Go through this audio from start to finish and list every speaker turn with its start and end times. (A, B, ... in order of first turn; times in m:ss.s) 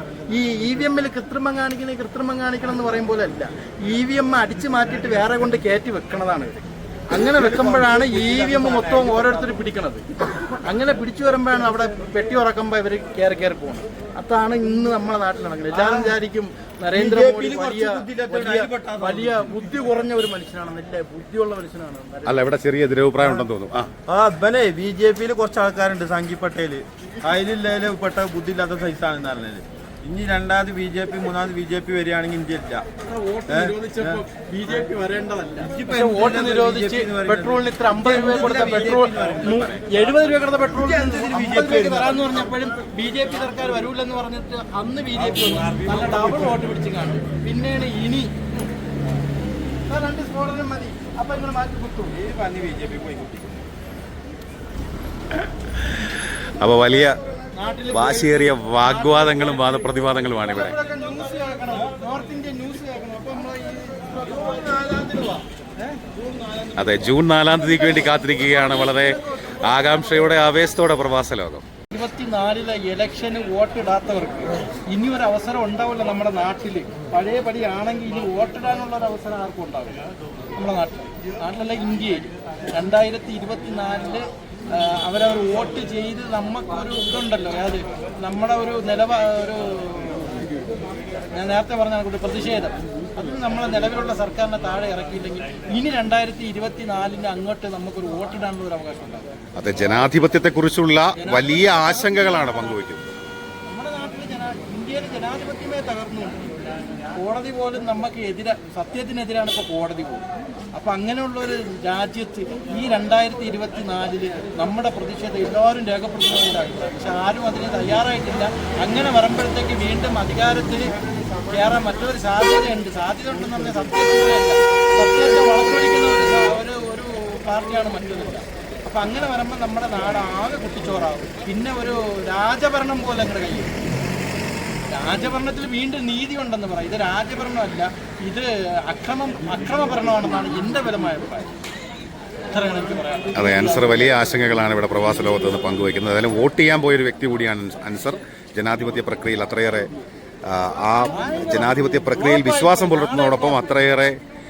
0:00.3-0:22.5 A
0:07.1-0:09.6 B
0:15.7-0:16.1 B
0:16.9-0:19.6 B
0:22.2-0:23.9 C
0:24.0-0:32.8 B
0:33.0-0:48.7 A
0:33.5-0:34.2 B
0:35.6-0:40.0 B
0:40.7-0:42.5 B
0:45.2-0:46.7 B
0:49.9-0:52.2 A
0:52.1-0:53.6 B
0:55.8-0:57.2 C
0:57.5-1:06.0 A
0:57.9-1:00.8 C
1:06.8-1:11.6 C
1:11.9-1:20.0 A
1:20.6-1:30.4 A
1:31.3-1:39.3 A
1:39.6-1:43.1 C
1:41.2-1:42.8 A
1:43.6-1:46.5 A
1:47.2-2:00.9 A
2:01.5-2:13.7 A
2:14.9-2:21.5 A
2:22.5-2:24.0 A
2:23.3-2:29.9 C
2:30.4-2:34.2 C
2:31.0-2:33.8 A